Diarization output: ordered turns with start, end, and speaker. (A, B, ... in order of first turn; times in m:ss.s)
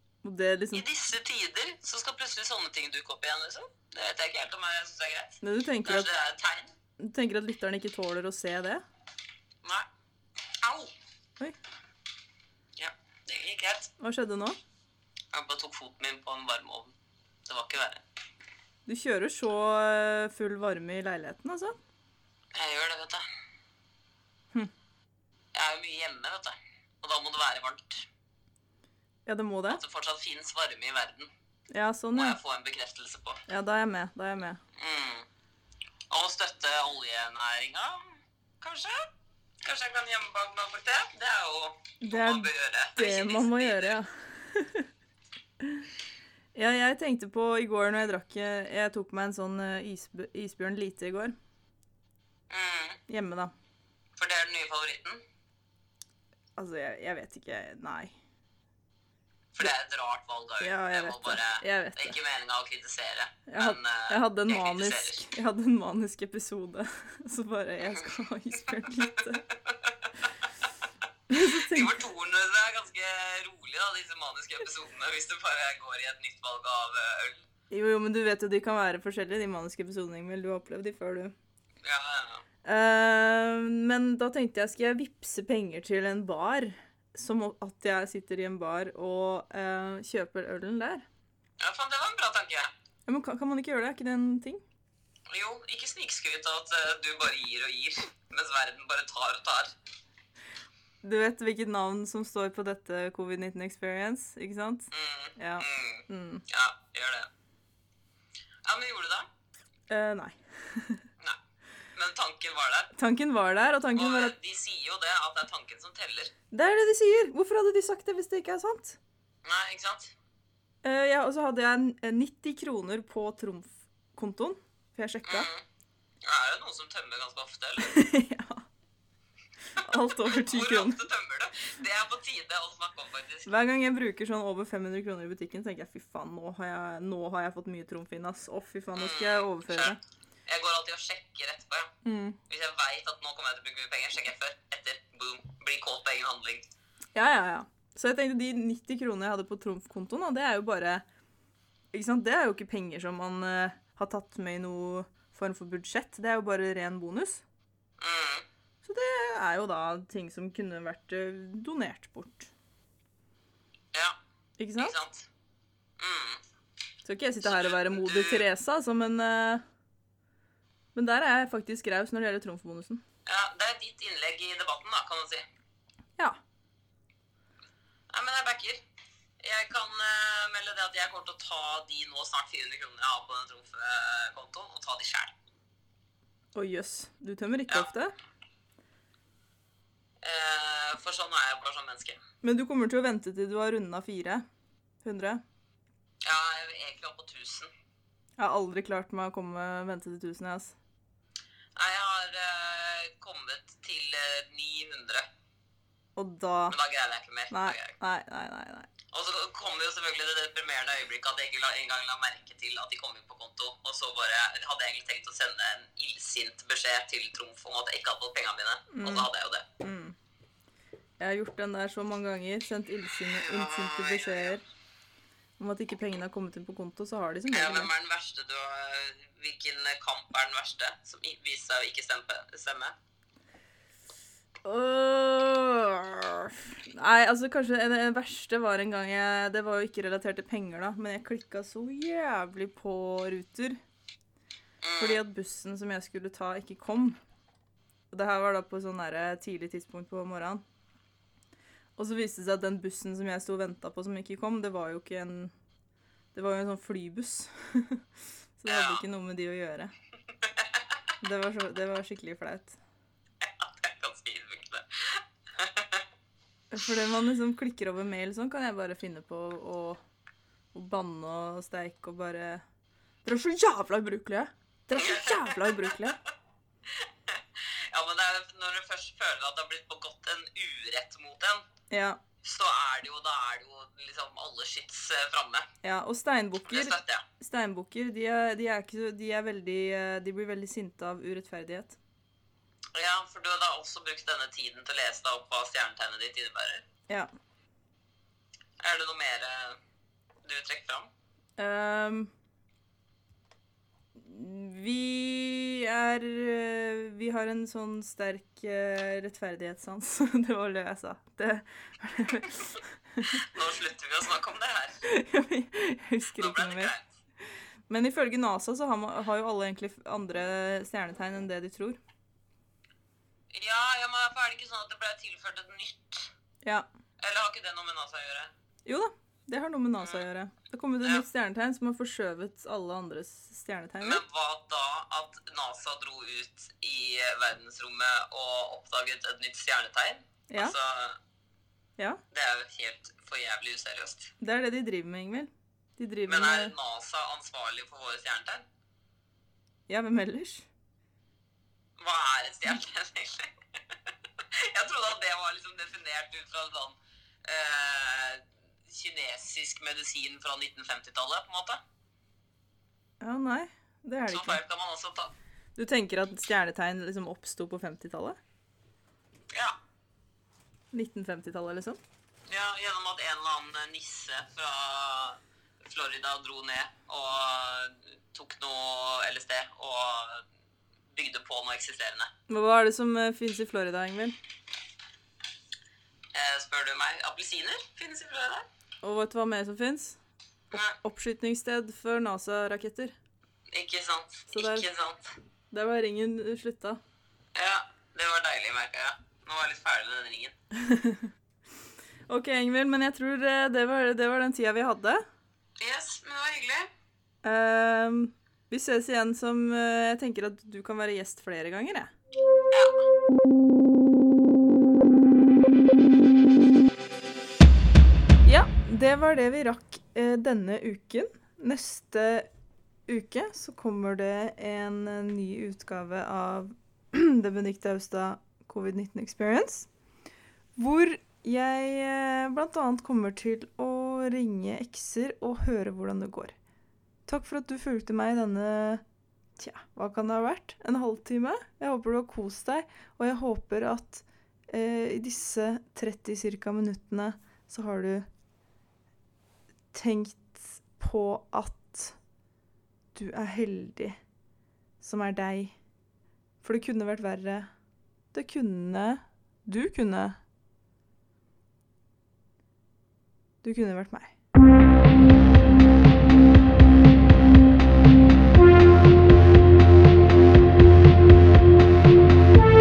0:00.2-0:00.8 A
0:00.7-0:06.7 B
0:05.4-0:06.1 A
0:07.0-0:08.8 A
0:10.6-0:10.9 B
0:12.8-0:13.9 B
0:14.0-0:14.6 A
0:15.3-0:16.9 B
0:17.5-0:18.0 B
0:18.9-0:21.8 A
0:22.5-0:23.2 B
0:25.5-0:28.0 B
0:29.2-0:29.8 A
0:29.7-0:31.3 B
0:31.7-0:32.4 A
0:32.1-0:33.4 B
0:33.5-0:34.6 A
0:34.8-0:35.2 B
0:36.1-0:39.1 B
0:39.6-0:44.0 B
0:42.0-0:44.9 A
0:46.5-0:51.4 A
0:52.5-0:53.0 B
0:53.1-0:53.5 A
0:54.2-0:55.2 B
0:56.6-0:58.1 A
0:59.5-1:05.3 B
1:00.6-1:02.1 A
1:03.5-1:09.4 A
1:11.3-1:12.0 A
1:11.3-1:17.4 B
1:17.7-1:21.3 A
1:21.8-1:22.4 B
1:22.6-1:31.0 A
1:31.6-1:32.7 B
1:33.1-1:34.6 A
1:35.3-1:39.7 B
1:41.0-1:46.4 A
1:44.9-1:47.3 B
1:48.6-1:49.3 B
1:49.9-1:51.0 A
1:51.9-1:52.9 B
1:53.0-1:54.3 A
1:54.0-1:56.3 B
1:56.5-1:59.0 A
1:59.4-2:00.1 B
2:00.8-2:05.5 A
2:05.2-2:05.6 B
2:06.2-2:08.0 B
2:07.8-2:08.6 A
2:09.8-2:11.0 A
2:10.2-2:13.5 B
2:13.4-2:20.0 A
2:18.9-2:21.9 B
2:22.0-2:22.4 A
2:22.5-2:26.6 B
2:27.1-2:31.0 A
2:31.9-2:37.4 A
2:38.0-2:38.4 B
2:38.8-2:42.5 A
2:44.6-2:45.0 A
2:44.8-2:45.3 B
2:46.0-2:46.4 B
2:47.0-2:49.6 A
2:47.4-2:48.4 B
2:50.9-2:53.0 A
2:53.2-2:55.4 B
2:58.1-2:58.8 B
2:59.4-3:05.3 B
3:06.5-3:08.1 A
3:10.2-3:12.2 B
3:12.4-3:14.4 A
3:15.0-3:15.4 A
3:16.2-3:17.7 B
3:18.4-3:20.7 A
3:21.8-3:25.3 B
3:26.2-3:26.8 A
3:26.7-3:27.9 B
3:27.5-3:28.9 A
3:29.1-3:39.6 B
3:38.9-3:39.3 A
3:39.8-3:40.1 A
3:41.2-3:44.6 A
3:43.3-3:44.6 B
3:45.6-3:47.9 A
3:47.5-3:52.9 B
3:54.6-4:03.8 A
4:04.8-4:05.2 B
4:05.0-4:07.2 A
4:08.1-4:10.6 A
4:12.0-4:15.5 A
4:16.3-4:18.0 A
4:18.6-4:19.9 A
4:18.7-4:19.0 B
4:21.2-4:22.8 A
4:23.4-4:26.0 B
4:26.7-4:30.0 A
4:30.7-4:32.6 A
4:33.2-4:36.2 A
4:35.0-4:35.9 B
4:37.0-4:41.6 B
4:41.9-4:42.2 A
4:42.4-4:45.7 B
4:45.8-4:52.0 A
4:46.7-4:47.2 B
4:52.9-4:56.8 B
4:58.8-4:59.8 B
5:00.4-5:01.1 B
5:01.6-5:02.3 A
5:04.2-5:13.4 A
5:13.4-5:15.0 B
5:15.0-5:16.9 A
5:16.4-5:17.0 B
5:17.9-5:22.0 A
5:23.5-5:26.3 B
5:27.2-5:28.5 B
5:28.8-5:34.2 A
5:34.0-5:41.2 B
5:42.3-5:44.3 B
5:44.4-5:46.7 A
5:46.3-5:48.6 B
5:49.9-5:50.7 A
5:52.0-5:53.5 B
5:54.5-6:01.8 B
6:03.2-6:04.6 A
6:04.3-6:05.3 B
6:05.8-6:08.4 A
6:09.5-6:09.8 B
6:10.9-6:12.0 A
6:12.5-6:20.4 B
6:21.1-6:22.3 B
6:22.5-6:24.4 A
6:26.3-6:28.7 B
6:29.0-6:30.2 A
6:30.7-6:31.0 B
6:30.7-6:33.1 A
6:33.7-6:35.3 B
6:34.5-6:34.9 A
6:35.7-6:37.0 A
6:37.5-6:40.5 B
6:40.8-6:41.3 A
6:42.3-6:45.2 A
6:45.8-6:46.9 B
6:47.4-6:52.1 A
6:52.7-6:53.0 B
6:58.4-7:02.5 A
7:03.1-7:09.9 A
7:10.8-7:16.5 A
7:17.3-7:19.0 A
7:19.6-7:28.3 A
7:29.9-7:32.1 A
7:33.1-7:34.2 A
7:35.0-7:35.7 A
7:36.6-7:37.7 A
7:38.3-7:40.4 A
7:43.6-7:44.3 A